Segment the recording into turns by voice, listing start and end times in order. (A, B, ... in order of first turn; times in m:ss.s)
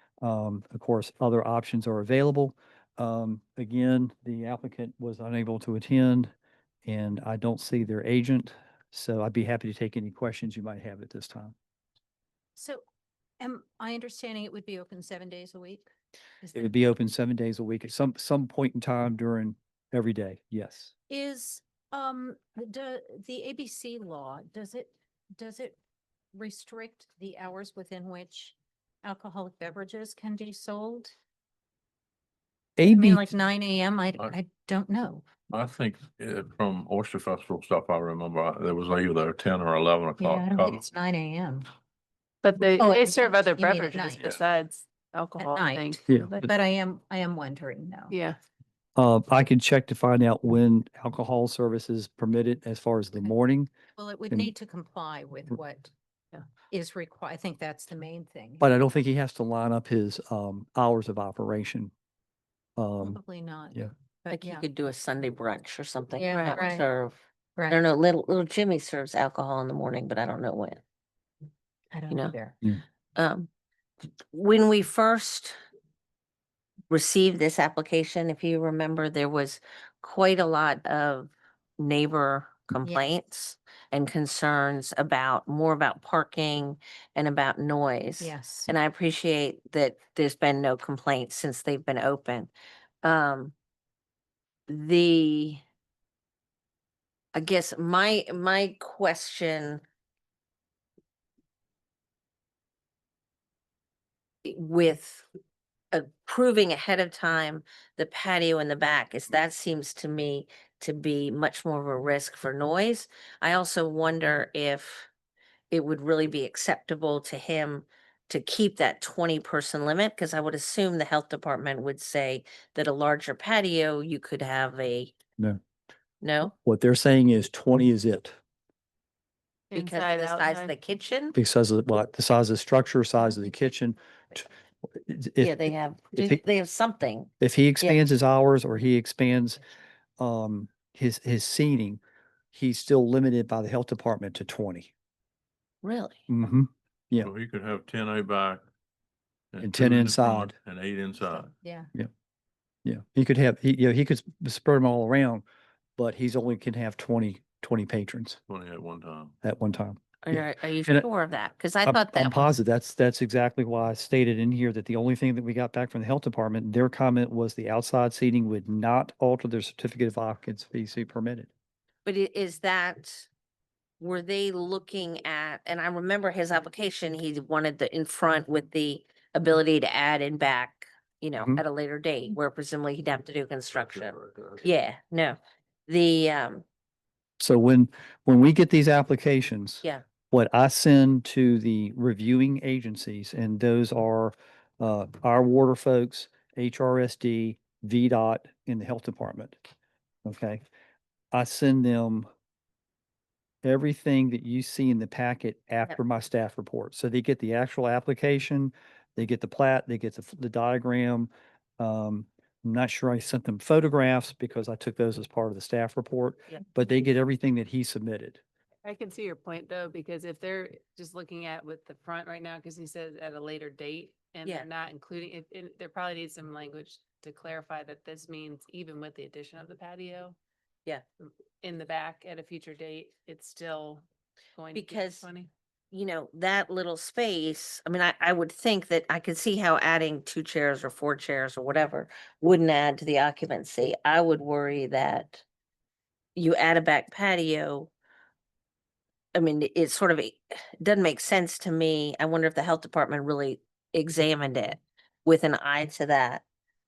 0:00.2-0:06.3 A
0:06.8-0:11.6 A
0:13.4-0:15.9 B
0:16.4-0:16.7 B
0:16.5-0:20.9 A
0:21.1-0:25.8 B
0:26.3-0:31.1 B
0:32.8-0:33.2 A
0:32.9-0:35.3 B
0:35.5-0:40.9 C
0:40.2-0:41.7 B
0:42.4-0:46.4 D
0:42.8-0:44.3 B
0:45.4-0:48.2 B
0:48.1-0:48.4 D
0:49.0-0:53.7 A
0:54.0-0:55.9 B
0:56.7-0:58.7 B
0:58.6-1:01.9 A
1:02.8-1:03.2 A
1:03.0-1:04.6 B
1:04.3-1:07.2 E
1:06.2-1:06.8 B
1:06.3-1:06.6 D
1:07.6-1:07.8 B
1:07.7-1:10.8 E
1:11.9-1:12.6 B
1:12.1-1:12.4 E
1:13.2-1:13.5 E
1:14.3-1:15.5 E
1:16.9-1:32.5 E
1:28.2-1:28.7 B
1:33.0-1:33.5 E
1:34.7-1:35.6 E
1:37.4-1:39.8 E
1:44.4-1:45.3 E
1:45.9-1:55.1 E
1:55.7-2:05.2 E
2:06.2-2:06.6 E
2:06.6-2:08.4 A
2:09.7-2:10.7 D
2:09.8-2:11.4 E
2:11.3-2:16.4 A
2:15.4-2:18.0 E
2:17.4-2:19.6 A
2:20.2-2:22.0 A
2:22.5-2:24.9 A
2:25.8-2:26.2 E
2:26.3-2:27.3 A
2:27.2-2:28.6 C
2:29.5-2:31.5 C
2:29.6-2:30.5 A
2:31.3-2:31.9 B
2:32.8-2:35.4 A
2:36.0-2:38.4 A
2:38.5-2:39.3 C
2:39.4-2:41.1 A
2:40.2-2:42.5 E
2:41.9-2:51.5 A
2:52.0-2:53.3 E
2:54.0-3:06.6 E
3:07.4-3:19.6 A
3:20.2-3:20.6 A
3:21.3-3:22.3 A
3:23.6-3:38.4 A
3:38.8-3:50.4 D
3:51.2-3:54.0 D
3:54.6-3:55.5 D
3:54.7-3:55.3 E
3:55.9-4:05.4 E
4:06.4-4:07.9 E
4:09.4-4:16.4 E